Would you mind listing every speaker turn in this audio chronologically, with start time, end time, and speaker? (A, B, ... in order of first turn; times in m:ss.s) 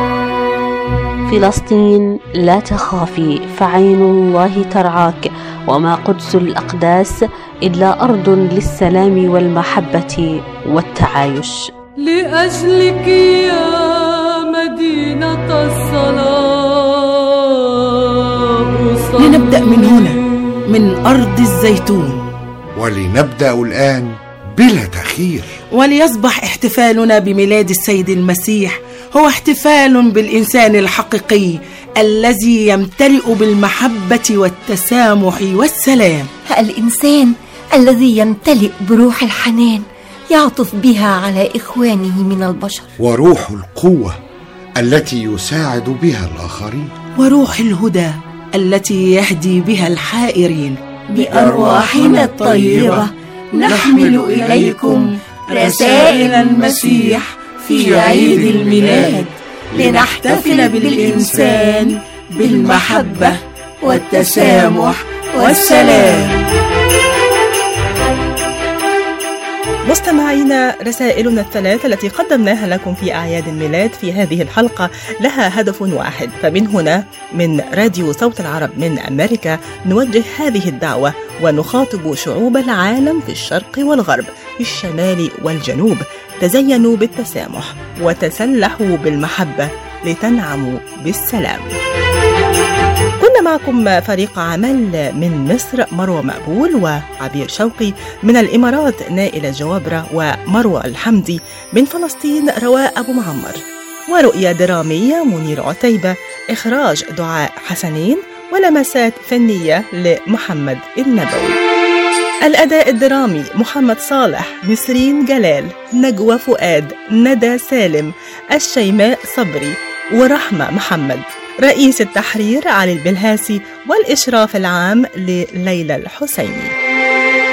0:01.3-0:07.1 A
0:07.7-0:11.6 A
0:12.0-0:20.0 B
0:19.2-0:20.1 C
0:20.7-0:22.2 C
0:22.8-0:25.5 D
0:25.7-0:36.3 C
0:36.5-0:42.9 E
0:43.0-0:44.2 D
0:44.8-0:46.9 D
0:47.2-0:53.1 C
0:51.1-1:01.9 E
0:53.6-0:55.0 C
0:55.5-0:59.2 C
0:59.8-1:03.3 C
1:02.4-1:06.3 E
1:04.1-1:06.3 C
1:09.9-1:31.7 F
1:33.2-1:43.6 F
1:44.1-1:51.6 F
1:52.4-2:06.7 F